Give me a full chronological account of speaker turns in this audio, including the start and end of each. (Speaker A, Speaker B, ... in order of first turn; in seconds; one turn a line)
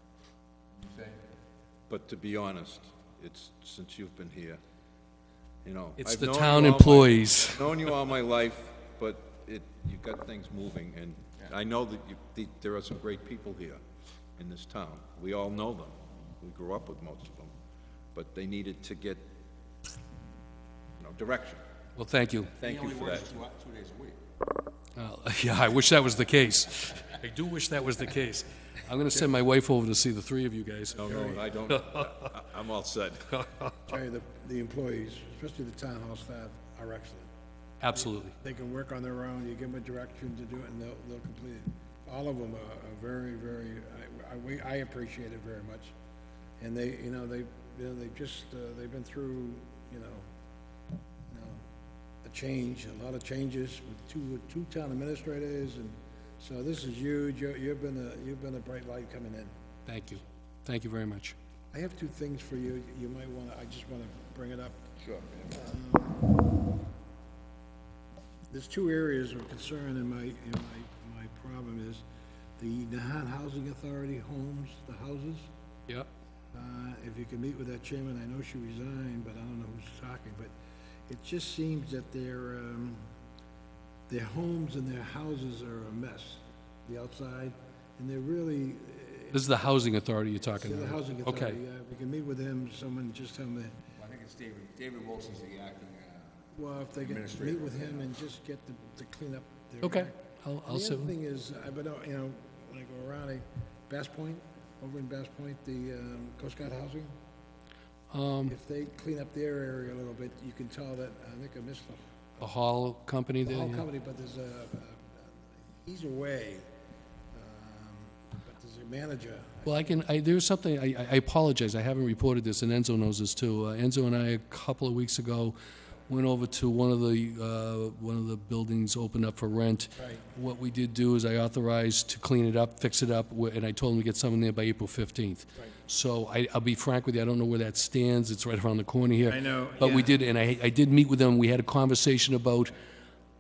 Speaker A: 0.8-1.2
Speaker B: 1.9-4.6
Speaker B: 5.6-13.8
Speaker C: 6.0-7.7
Speaker B: 14.4-17.5
Speaker B: 18.1-19.3
Speaker B: 21.0-21.6
Speaker C: 21.9-22.6
Speaker A: 22.6-24.2
Speaker B: 22.6-23.3
Speaker C: 24.9-31.2
Speaker B: 30.9-33.4
Speaker D: 31.1-31.4
Speaker D: 33.9-37.3
Speaker C: 37.8-38.3
Speaker D: 38.3-45.9
Speaker D: 46.6-50.2
Speaker D: 51.3-51.6
Speaker D: 52.2-59.5
Speaker C: 59.9-61.3
Speaker D: 61.7-64.9
Speaker A: 65.0-65.6
Speaker D: 65.5-66.3
Speaker D: 68.5-72.0
Speaker D: 72.6-75.5
Speaker D: 76.5-80.5
Speaker D: 81.1-83.0
Speaker D: 84.1-89.6
Speaker C: 89.3-91.6
Speaker D: 90.5-93.8
Speaker A: 94.0-96.4
Speaker D: 96.5-107.1
Speaker A: 97.0-98.1
Speaker C: 99.8-101.1
Speaker C: 108.1-108.6
Speaker D: 108.5-112.0
Speaker C: 112.4-113.8
Speaker D: 113.4-116.7
Speaker D: 117.3-120.0
Speaker C: 119.7-125.6
Speaker C: 126.1-142.7
Speaker D: 130.0-130.2
Speaker D: 139.3-140.2